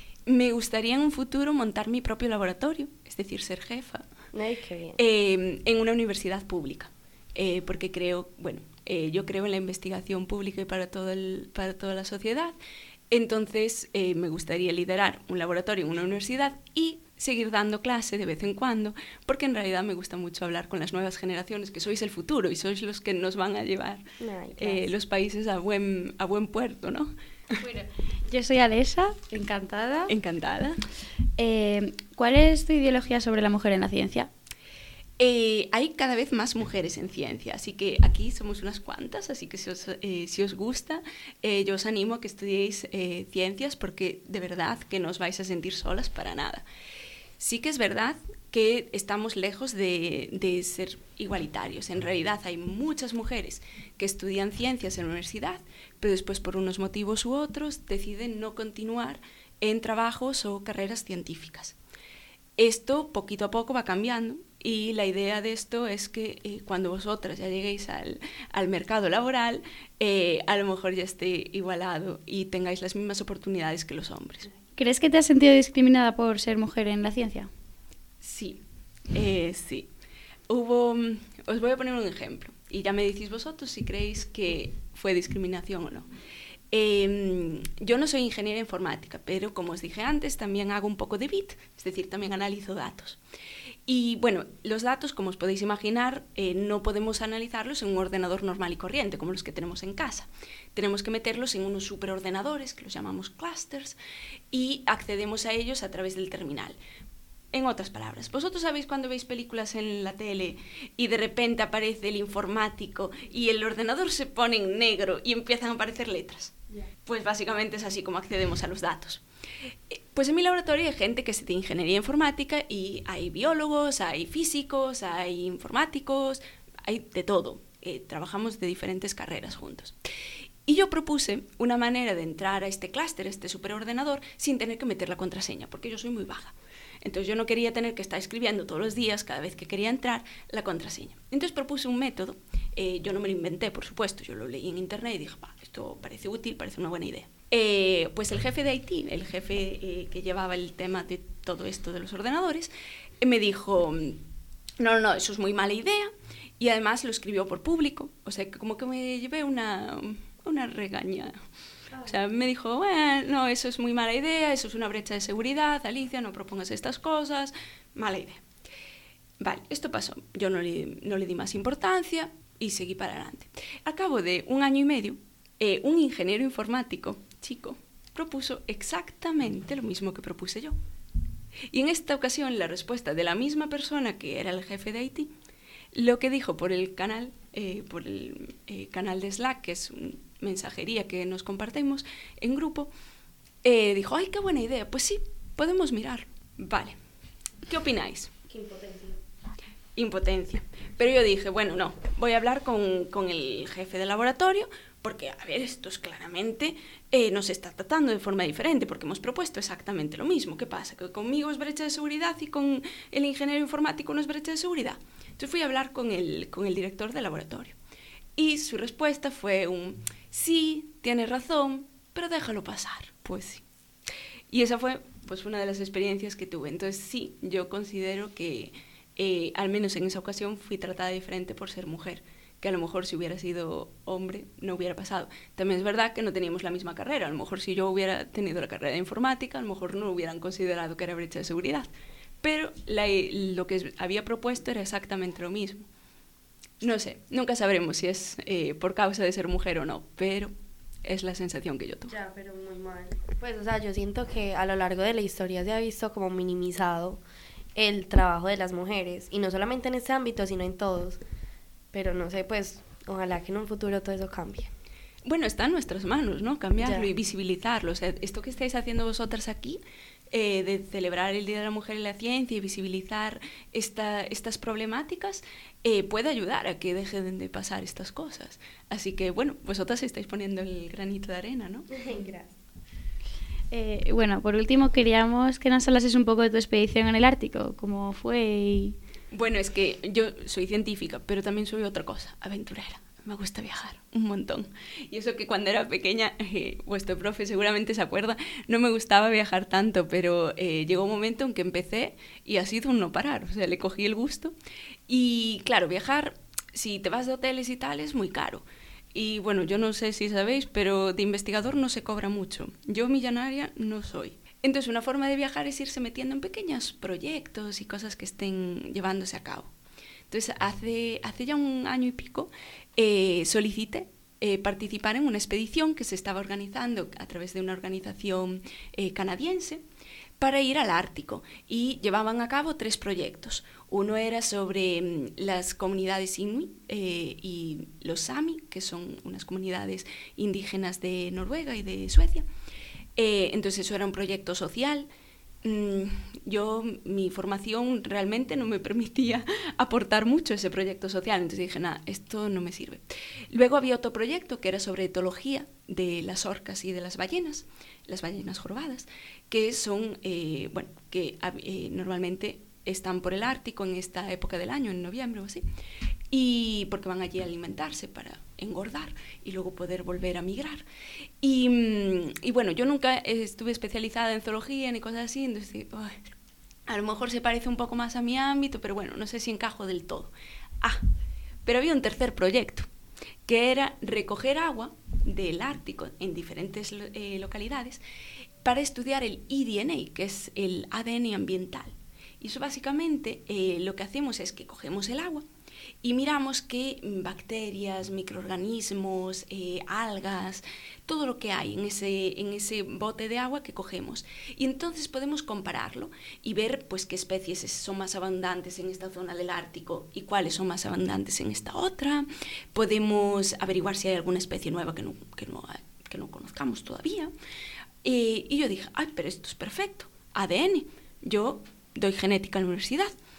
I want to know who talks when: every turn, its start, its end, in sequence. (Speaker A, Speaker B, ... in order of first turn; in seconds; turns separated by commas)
Speaker A: 0.3-4.0, Speaker B: 4.3-5.0, Speaker A: 5.0-12.6, Speaker A: 13.1-24.0, Speaker B: 24.2-24.9, Speaker A: 24.6-27.1, Speaker C: 27.5-30.1, Speaker A: 30.1-30.8, Speaker C: 31.4-34.3, Speaker A: 35.2-46.6, Speaker A: 47.4-61.7, Speaker A: 62.6-74.5, Speaker C: 74.8-77.5, Speaker A: 78.2-78.6, Speaker A: 79.1-79.9, Speaker A: 80.5-86.1, Speaker A: 86.7-93.2, Speaker A: 93.9-104.0, Speaker A: 104.5-106.8, Speaker A: 107.5-119.2, Speaker A: 119.9-129.9, Speaker A: 130.7-154.2, Speaker A: 154.8-161.3, Speaker A: 162.0-168.4, Speaker A: 169.4-180.8, Speaker A: 181.7-185.3, Speaker A: 185.9-192.9, Speaker A: 193.6-197.0, Speaker A: 197.7-198.3, Speaker B: 198.5-199.2, Speaker A: 199.9-217.7, Speaker A: 218.4-223.6, Speaker A: 224.5-241.9, Speaker A: 242.4-245.9, Speaker A: 246.8-250.5, Speaker A: 251.0-252.1, Speaker B: 252.1-257.2, Speaker B: 257.7-261.2, Speaker B: 261.9-264.7, Speaker A: 265.2-269.8, Speaker B: 266.8-267.1, Speaker A: 270.3-281.9, Speaker B: 281.9-282.5, Speaker C: 283.7-288.9, Speaker A: 289.3-304.5, Speaker A: 305.1-319.7, Speaker A: 320.3-329.8, Speaker A: 330.4-342.4, Speaker A: 343.2-345.1, Speaker A: 345.6-365.6, Speaker A: 366.3-370.8, Speaker A: 371.4-376.2, Speaker A: 376.9-381.0, Speaker A: 381.6-382.9, Speaker A: 383.4-388.0, Speaker A: 388.6-395.4, Speaker A: 396.0-417.3, Speaker A: 418.0-423.1